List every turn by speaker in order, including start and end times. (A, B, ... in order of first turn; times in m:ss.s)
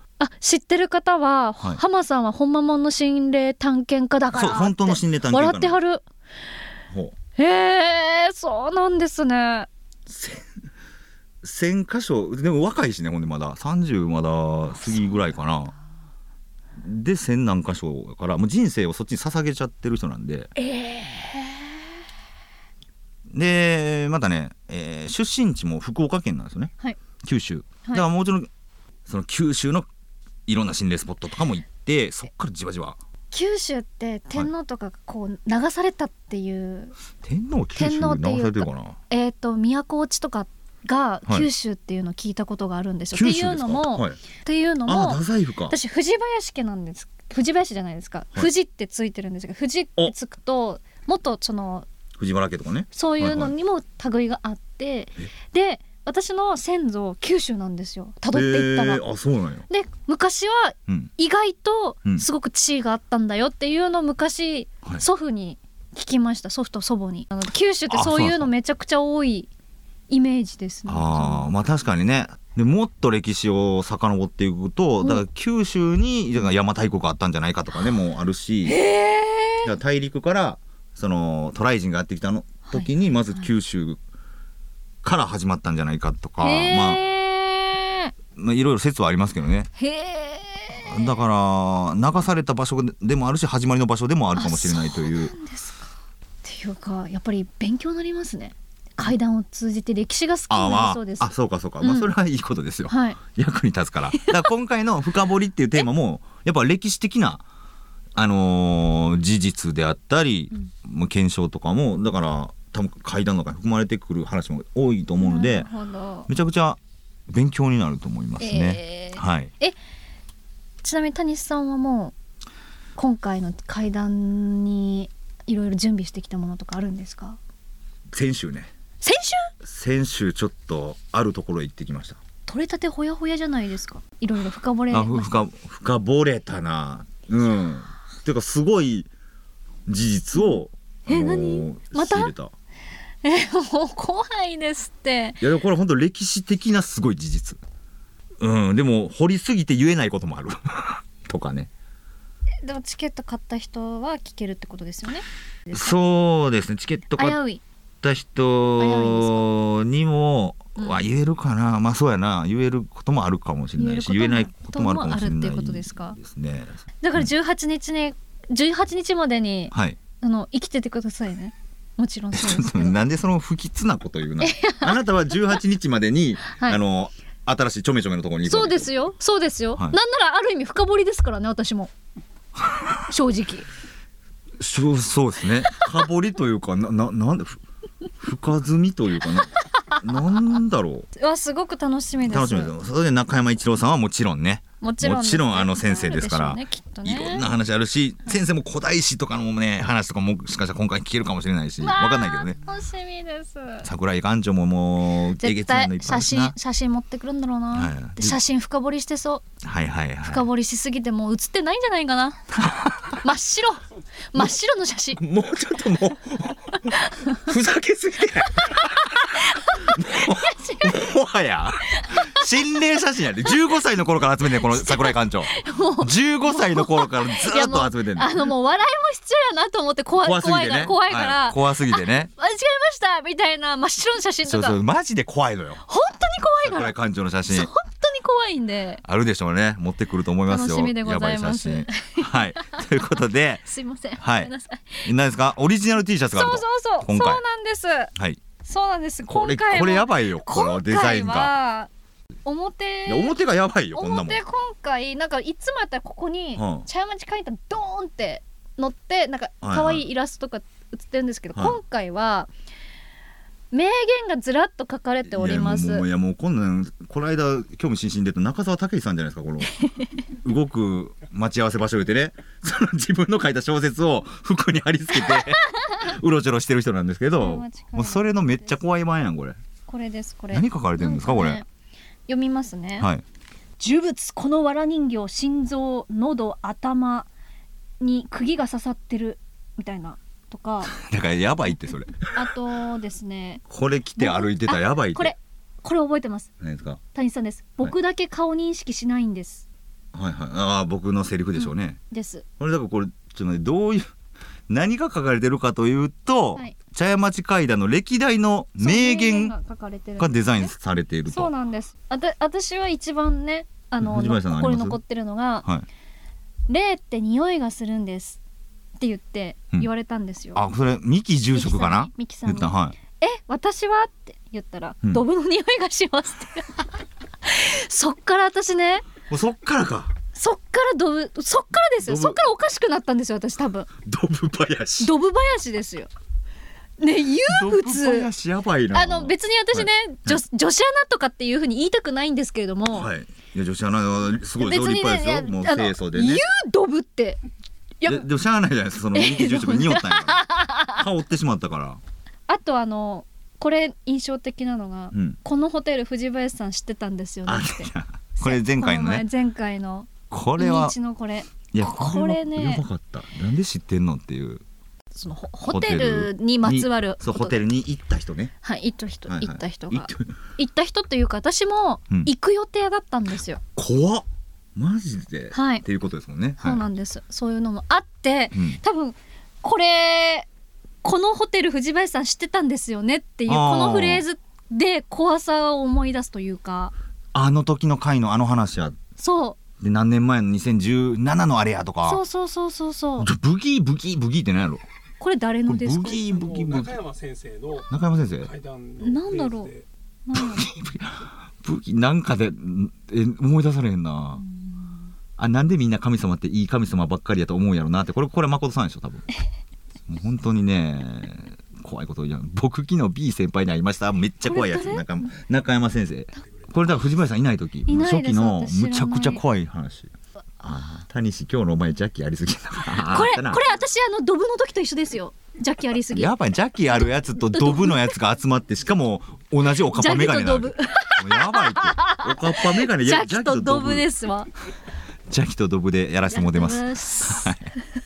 0:00.2-0:06.0 A
0:04.3-0:05.8 B
0:06.9-0:07.1 B
0:07.4-0:09.7 A
0:10.0-0:10.5 B
0:11.4-0:15.7 B
0:16.8-0:20.5 B
0:20.6-0:21.7 A
0:23.3-0:26.7 B
0:27.2-0:28.5 B
0:29.0-0:29.9 B
0:30.4-0:33.0 B
0:33.3-0:36.9 A
0:37.2-0:39.0 B
0:37.8-0:51.9 A
0:43.1-0:44.2 B
0:44.8-0:45.8 B
0:52.2-0:53.5 B
0:52.9-0:59.0 A
0:58.3-0:59.6 B
0:59.7-1:09.5 A
1:07.9-1:08.5 B
1:10.1-1:11.5 A
1:10.9-1:18.8 B
1:18.7-1:19.7 A
1:19.6-1:24.0 B
1:22.7-1:22.9 A
1:25.0-1:27.0 B
1:26.4-1:28.1 A
1:28.4-1:29.7 B
1:29.8-1:31.1 A
1:30.8-1:35.3 B
1:34.3-1:35.9 A
1:36.4-1:42.1 A
1:40.5-1:47.4 B
1:42.9-1:43.2 A
1:44.2-1:44.4 A
1:48.1-1:55.7 B
1:55.2-1:56.3 A
1:56.3-1:59.5 B
1:58.4-1:59.7 A
2:00.8-2:02.1 A
2:03.0-2:07.4 A
2:08.1-2:08.7 B
2:09.0-2:09.5 A
2:09.6-2:12.2 B
2:12.4-2:15.4 A
2:14.9-2:19.1 B
2:19.8-2:22.5 B
2:21.1-2:22.3 A
2:23.2-2:25.4 A
2:25.4-2:27.6 B
2:28.4-2:31.7 B
2:32.6-2:36.0 A
2:35.7-2:37.4 B
2:37.2-2:37.6 A
2:38.0-2:47.3 B
2:38.8-2:39.5 A
2:43.8-2:46.2 A
2:47.0-2:53.0 A
2:49.7-2:50.0 B
2:52.3-2:58.9 B
2:54.4-2:55.1 A
2:56.5-2:56.8 A
2:58.4-3:01.9 A
3:03.1-3:03.7 A
3:04.6-3:07.6 B
3:08.2-3:11.1 B
3:09.7-3:10.0 A
3:11.2-3:12.7 A
3:12.2-3:22.6 B
3:14.8-3:17.5 A
3:21.8-3:23.9 A
3:23.8-3:26.5 B
3:25.4-3:29.4 A
3:27.7-3:28.4 B
3:29.6-3:30.5 B
3:30.2-3:35.2 A
3:32.5-3:33.2 B
3:35.2-3:48.5 B
3:36.9-3:37.3 A
3:39.4-3:40.9 A
3:42.0-3:42.4 A
3:44.7-3:54.8 A
3:50.2-3:52.3 B
3:54.4-3:55.8 B
3:55.8-3:56.9 A
3:56.6-3:57.7 B
3:57.5-3:59.0 A
3:59.0-4:03.6 B
4:00.5-4:02.8 A
4:03.6-4:05.1 A
4:04.2-4:04.5 B
4:05.0-4:07.4 B
4:06.3-4:08.1 A
4:08.1-4:08.4 B
4:08.6-4:11.9 A
4:09.3-4:11.5 B
4:12.4-4:13.3 A
4:13.0-4:14.4 B
4:13.9-4:22.5 A
4:16.6-4:16.9 B
4:19.6-4:20.0 B
4:21.5-4:21.8 B
4:23.7-4:26.0 A
4:25.3-4:29.7 B
4:29.8-4:30.1 A
4:30.4-4:39.6 B
4:37.4-4:38.7 A
4:39.9-4:41.7 A
4:40.5-4:41.6 B
4:42.3-4:43.1 A
4:43.0-4:43.2 B
4:43.8-4:47.3 A
4:48.0-4:50.9 A
4:50.9-4:52.4 B
4:52.3-4:53.6 A
4:53.7-4:55.3 B
4:54.2-4:56.5 A
4:56.6-4:57.0 B
4:57.1-4:59.6 A
5:00.1-5:02.0 B
5:01.6-5:02.4 A
5:02.6-5:04.1 B
5:04.7-5:09.5 B
5:08.8-5:10.7 A
5:10.2-5:11.5 B
5:11.3-5:15.7 A
5:14.0-5:15.0 B
5:16.7-5:18.4 A
5:19.0-5:20.6 A
5:20.5-5:23.0 B
5:21.5-5:26.9 A
5:27.4-5:29.0 A
5:29.3-5:30.1 B
5:30.3-5:33.9 A
5:32.0-5:32.4 B
5:34.0-5:35.1 B
5:35.0-5:36.1 A
5:37.0-5:38.3 A
5:37.4-5:40.4 B
5:38.9-5:43.1 A
5:42.9-5:46.4 B
5:44.6-5:47.4 A
5:48.0-5:52.0 B
5:49.1-5:51.0 A
5:52.5-6:02.8 A
5:55.1-5:55.4 B
5:57.4-5:59.3 B
6:00.3-6:01.0 B
6:01.7-6:04.6 B
6:05.1-6:07.6 A
6:05.6-6:08.5 B
6:08.6-6:13.6 A
6:09.3-6:10.3 B
6:13.8-6:16.8 B
6:15.5-6:15.8 A
6:16.6-6:20.5 A
6:18.5-6:18.8 B
6:21.0-6:26.9 A
6:23.5-6:24.2 B
6:27.3-6:29.0 B
6:29.2-6:29.6 A
6:29.8-6:32.2 B
6:32.0-6:33.3 A
6:33.2-6:34.8 B
6:35.2-6:36.2 A
6:35.7-6:37.0 B
6:36.0-6:39.8 C
6:37.9-6:38.5 B
6:39.0-6:39.7 A
6:40.2-6:40.7 A
6:40.3-6:44.4 B
6:44.4-6:44.7 A
6:45.4-6:49.2 B
6:50.1-7:03.6 B
6:54.4-6:55.3 A
6:57.9-6:59.4 A
7:03.0-7:06.3 A
7:06.1-7:14.1 B
7:07.3-7:08.1 A
7:09.9-7:14.5 A
7:15.3-7:17.7 B
7:16.3-7:17.5 A